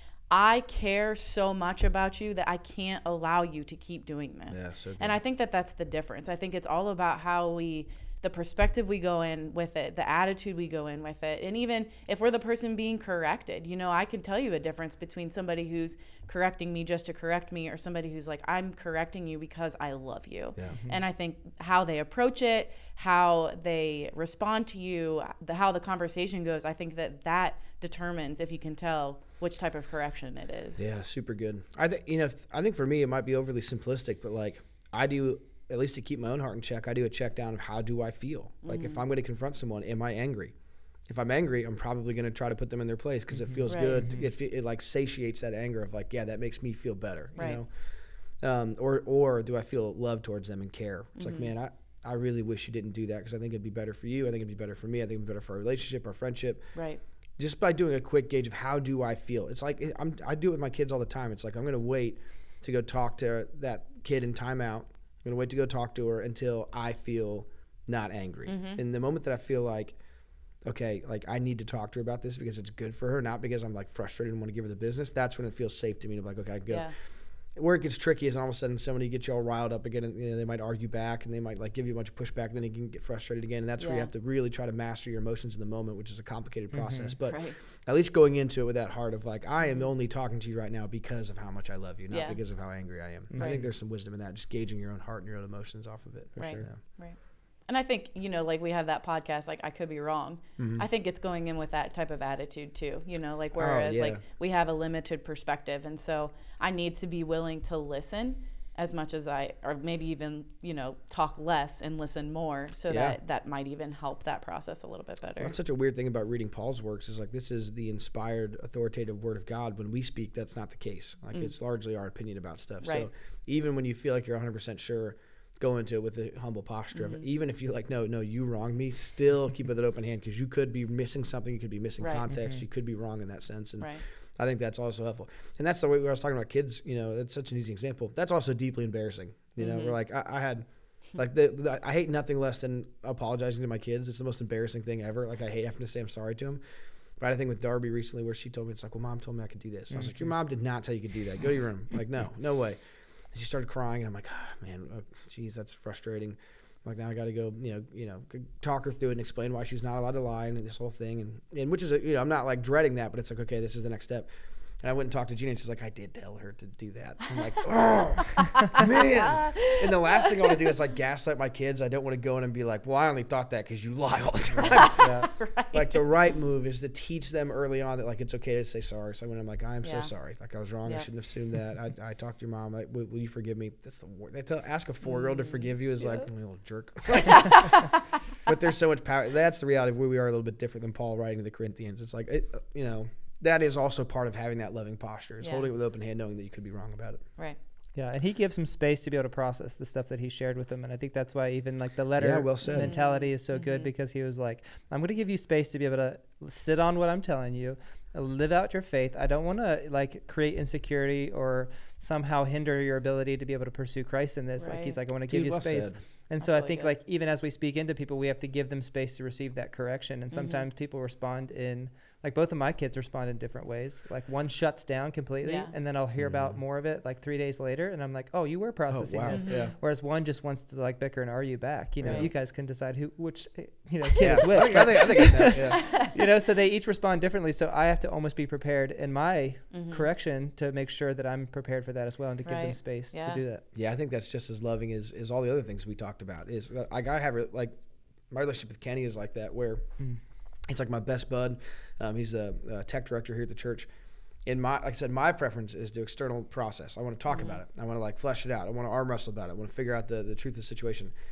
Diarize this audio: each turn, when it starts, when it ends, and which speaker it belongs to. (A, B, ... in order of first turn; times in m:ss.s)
0:00.3-0:30.8 A
0:04.5-0:05.2 B
0:30.8-0:40.5 B
0:38.6-0:39.0 A
0:41.1-0:47.7 B
0:43.3-0:44.3 C
0:43.7-0:44.1 A
0:48.4-0:56.6 B
0:51.2-0:51.5 A
0:56.7-0:57.0 A
0:57.4-1:10.0 B
1:08.5-1:08.8 A
1:10.6-1:16.9 B
1:17.5-1:36.8 B
1:23.8-1:24.1 A
1:26.7-1:27.1 C
1:27.2-1:27.6 A
1:29.6-1:29.9 A
1:32.1-1:32.4 A
1:33.3-1:33.6 C
1:33.4-1:33.6 A
1:36.4-1:36.7 C
1:36.4-1:55.5 A
1:40.6-1:40.8 B
1:43.5-1:44.2 B
1:52.9-1:53.2 B
1:55.4-2:26.6 B
2:02.8-2:03.1 A
2:06.9-2:07.2 A
2:12.0-2:12.2 A
2:12.3-2:12.6 C
2:19.6-2:20.0 A
2:27.2-2:32.8 B
2:29.9-2:30.3 C
2:33.3-2:44.3 B
2:44.8-2:54.9 B
2:48.8-2:50.8 A
2:54.6-2:56.0 A
2:55.0-2:55.3 C
2:55.7-3:17.2 B
2:59.8-3:00.1 A
3:05.1-3:06.2 A
3:07.1-3:07.9 A
3:15.4-3:15.7 A
3:18.0-4:03.6 C
3:22.2-3:22.9 B
3:22.7-3:23.9 A
3:34.6-3:35.0 A
3:35.3-3:36.0 B
3:36.4-3:36.9 A
3:40.3-3:40.6 A
3:45.4-3:45.7 A
3:46.2-3:46.6 B
3:48.9-3:49.7 B
3:49.3-3:49.7 A
3:52.0-3:52.3 B
3:52.0-3:52.3 A
3:54.2-3:55.8 B
3:55.3-3:56.1 A
3:59.7-4:00.0 A
4:02.4-4:03.4 A
4:03.7-4:07.7 B
4:08.3-4:09.9 B
4:10.7-4:13.9 B
4:14.4-4:21.1 B
4:17.3-4:17.6 A